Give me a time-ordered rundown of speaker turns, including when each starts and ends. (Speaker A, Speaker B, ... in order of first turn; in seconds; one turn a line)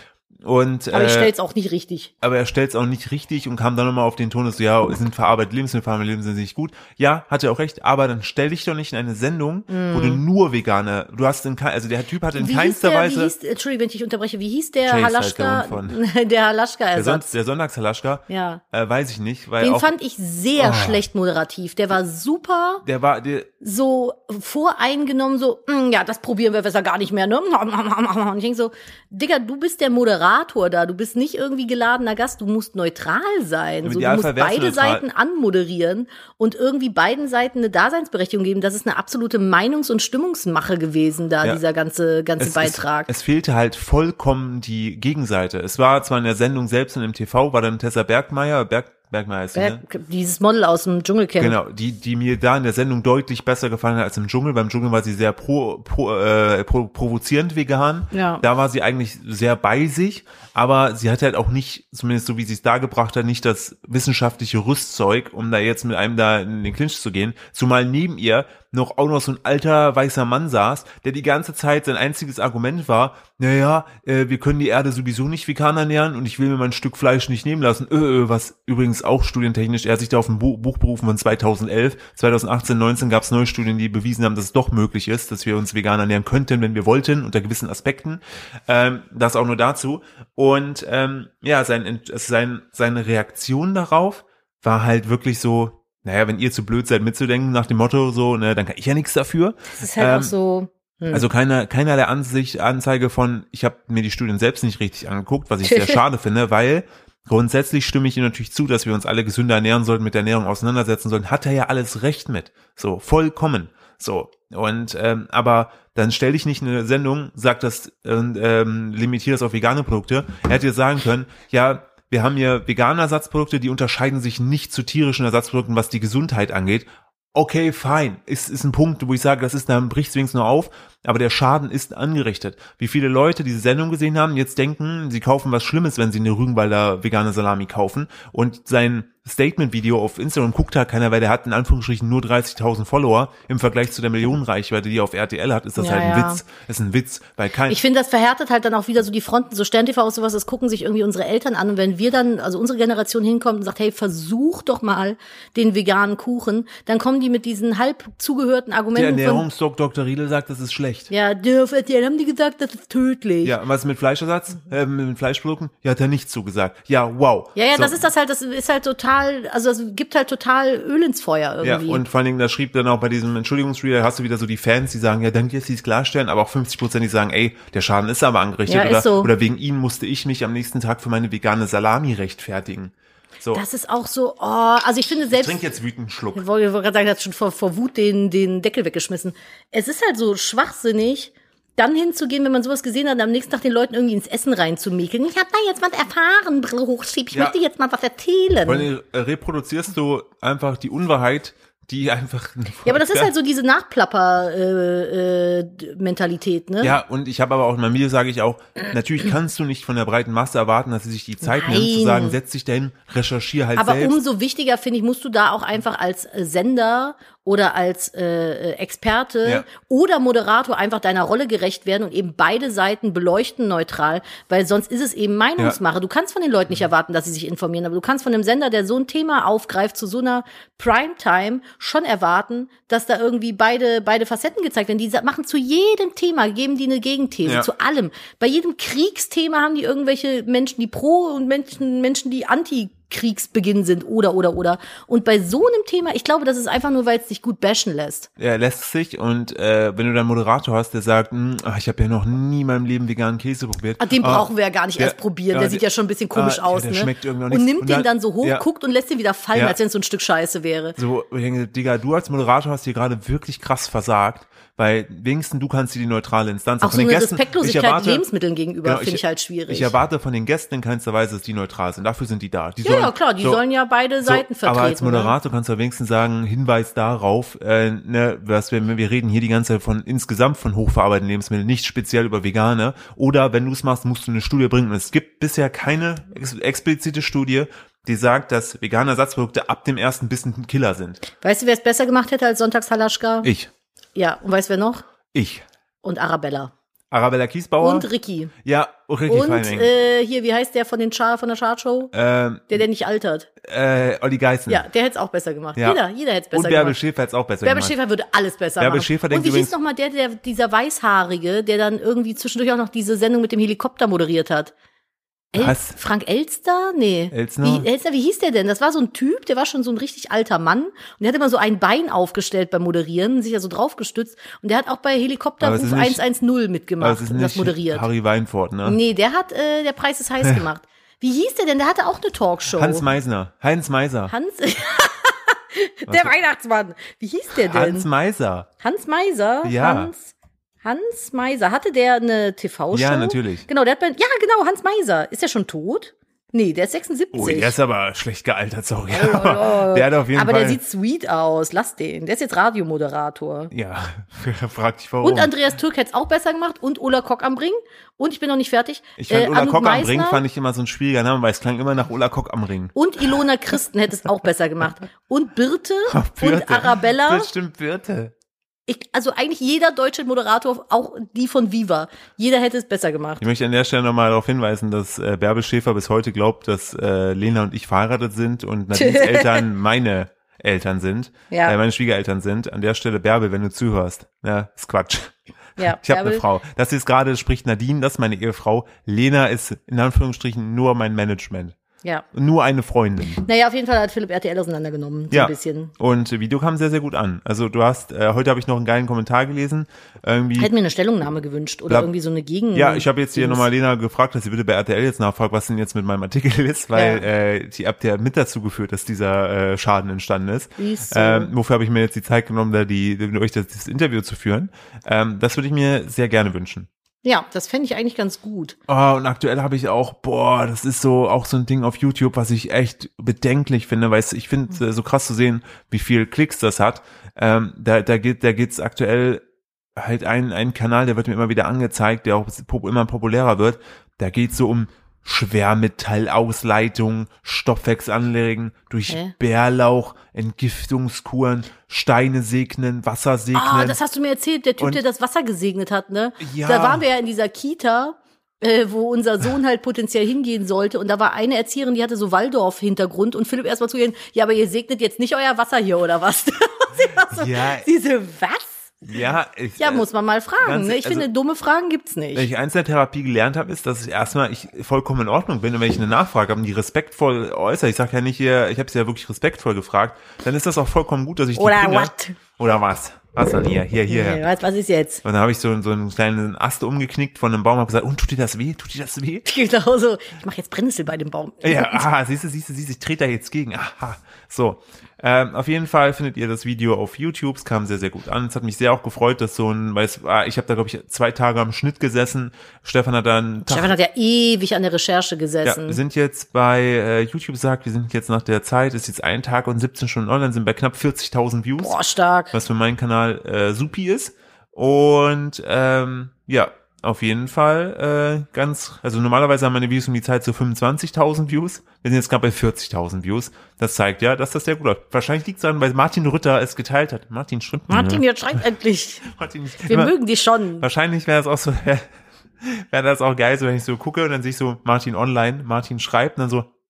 Speaker A: 0.4-1.3
Speaker B: 0.9-2.1
Speaker A: 2.2-13.3
Speaker B: 9.7-10.2
Speaker B: 12.4-17.3
Speaker A: 14.8-16.0
Speaker A: 16.9-19.9
Speaker B: 18.3-18.6
Speaker B: 19.6-22.8
Speaker A: 20.6-21.0
Speaker A: 22.8-23.5
Speaker B: 23.6-43.1
Speaker A: 33.8-35.0
Speaker A: 42.4-49.8
Speaker B: 49.5-51.6
Speaker A: 51.4-100.3
Speaker B: 58.1-58.4
Speaker B: 99.8-101.3
Speaker A: 101.1-147.8
Speaker B: 105.6-106.0
Speaker B: 145.8-146.4
Speaker B: 147.7-159.5
Speaker A: 158.9-161.1
Speaker B: 161.1-163.6
Speaker A: 163.4-168.0
Speaker B: 167.6-172.0
Speaker A: 171.6-183.6
Speaker B: 178.7-179.3
Speaker B: 183.5-185.6
Speaker A: 185.3-186.4
Speaker B: 186.3-198.9
Speaker A: 198.6-203.3
Speaker B: 202.8-207.0
Speaker A: 206.8-214.2
Speaker B: 211.4-212.4
Speaker B: 213.8-248.3
Speaker A: 248.4-258.6
Speaker B: 254.0-261.0
Speaker A: 261.0-268.2
Speaker B: 266.8-269.9
Speaker A: 268.9-273.6
Speaker B: 272.8-275.4
Speaker A: 274.2-291.2
Speaker B: 291.4-293.5
Speaker A: 293.4-293.7
Speaker B: 294.1-295.0
Speaker A: 295.3-295.6
Speaker B: 296.0-296.7
Speaker A: 297.1-298.1
Speaker B: 297.8-298.5
Speaker A: 298.6-299.9
Speaker B: 299.3-302.1
Speaker A: 302.1-302.8
Speaker B: 302.7-303.5
Speaker A: 303.6-304.8
Speaker B: 304.7-307.0
Speaker A: 306.5-307.9
Speaker B: 307.6-314.7
Speaker A: 308.8-309.7
Speaker B: 315.5-328.1
Speaker A: 315.6-316.0
Speaker A: 317.3-317.9
Speaker A: 325.6-326.2
Speaker A: 327.0-329.0
Speaker B: 328.9-333.1
Speaker A: 332.7-334.3
Speaker B: 334.3-338.1
Speaker A: 336.1-336.4
Speaker A: 337.6-338.7
Speaker B: 338.8-347.8
Speaker A: 339.6-340.1
Speaker A: 342.9-343.6
Speaker A: 347.3-350.8
Speaker B: 349.1-353.7
Speaker A: 353.7-355.6
Speaker B: 355.2-360.4
Speaker A: 359.2-362.9
Speaker B: 362.9-367.5
Speaker A: 366.1-368.3
Speaker B: 368.9-373.4
Speaker A: 373.4-391.8
Speaker B: 378.9-379.6
Speaker B: 381.5-381.8
Speaker B: 385.8-386.4
Speaker A: 392.3-393.4
Speaker B: 393.4-395.9
Speaker A: 395.3-400.7
Speaker B: 400.6-403.7
Speaker A: 402.7-416.9
Speaker B: 406.9-407.2
Speaker B: 410.8-411.5
Speaker B: 417.2-418.8
Speaker A: 418.9-429.4
Speaker A: 430.0-444.0
Speaker B: 443.5-458.9
Speaker A: 446.4-447.1
Speaker A: 457.3-457.9
Speaker A: 459.1-460.1
Speaker B: 459.8-462.5
Speaker A: 460.6-461.3
Speaker A: 462.3-474.4
Speaker B: 471.6-472.4
Speaker B: 474.1-475.2
Speaker A: 475.2-479.5
Speaker B: 479.5-482.1
Speaker A: 481.6-493.9
Speaker B: 493.6-496.0
Speaker A: 495.6-502.0
Speaker B: 501.8-502.5
Speaker A: 502.5-518.2
Speaker B: 517.9-519.3
Speaker A: 519.3-520.1
Speaker B: 519.9-520.9
Speaker A: 520.8-522.0
Speaker A: 522.6-526.7